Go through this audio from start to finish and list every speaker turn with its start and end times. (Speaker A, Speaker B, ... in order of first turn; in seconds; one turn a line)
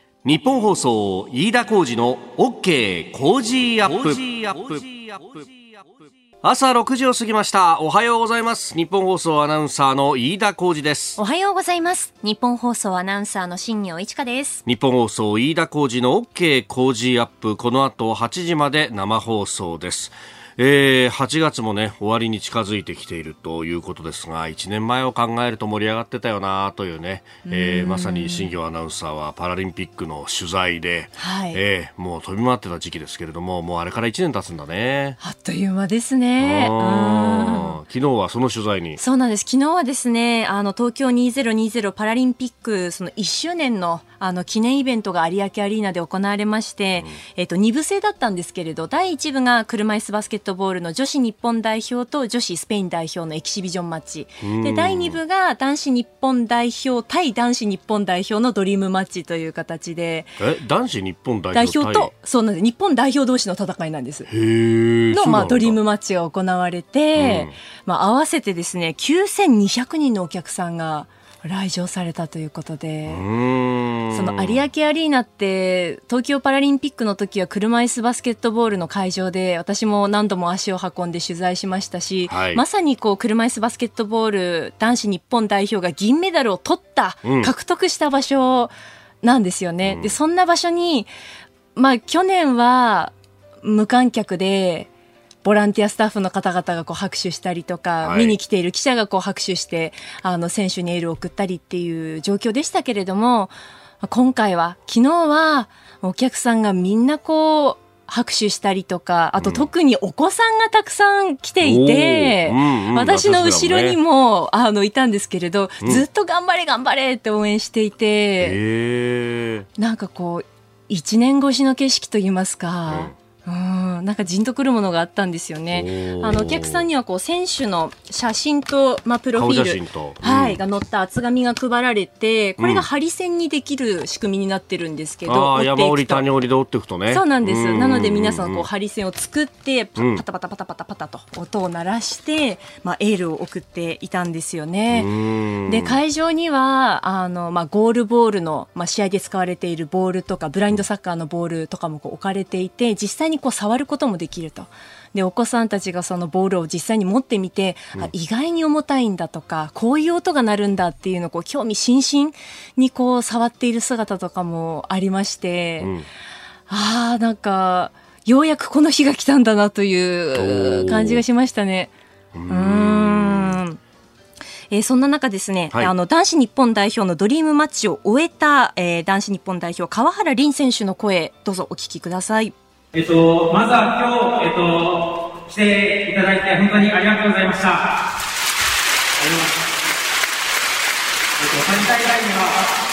Speaker A: 0.2-5.5
Speaker A: 6.4-11.2
Speaker B: 11.2-14.6
Speaker A: 14.7-35.2
Speaker B: 27.5-28.5
Speaker B: 31.2-31.6
Speaker B: 35.2-37.8
Speaker A: 36.4-39.0
Speaker B: 39.0-60.4
Speaker A: 46.9-47.2
Speaker A: 54.4-55.2
Speaker A: 60.4-62.1
Speaker B: 61.5-64.3
Speaker A: 64.3-65.8
Speaker B: 65.1-73.2
Speaker A: 67.2-67.6
Speaker A: 73.1-74.7
Speaker B: 74.1-91.1
Speaker A: 82.3-82.6
Speaker A: 87.2-87.5
Speaker A: 89.8-90.2
Speaker B: 91.8-94.9
Speaker B: 95.4-118.6
Speaker A: 98.0-98.4
Speaker A: 109.4-109.7
Speaker A: 111.6-114.0
Speaker A: 118.4-119.7
Speaker B: 119.8-136.2
Speaker A: 122.9-123.2
Speaker A: 125.7-126.9
Speaker A: 129.3-130.6
Speaker A: 132.6-132.9
Speaker A: 135.2-138.7
Speaker B: 137.1-145.1
Speaker A: 140.0-140.2
Speaker A: 144.9-146.0
Speaker B: 145.7-165.9
Speaker A: 165.8-166.1
Speaker B: 166.7-171.9
Speaker A: 170.3-171.2
Speaker A: 172.3-173.6
Speaker B: 172.5-173.8
Speaker B: 174.7-182.5
Speaker C: 182.9-187.9
Speaker C: 189.2-189.6
Speaker C: 191.4-192.7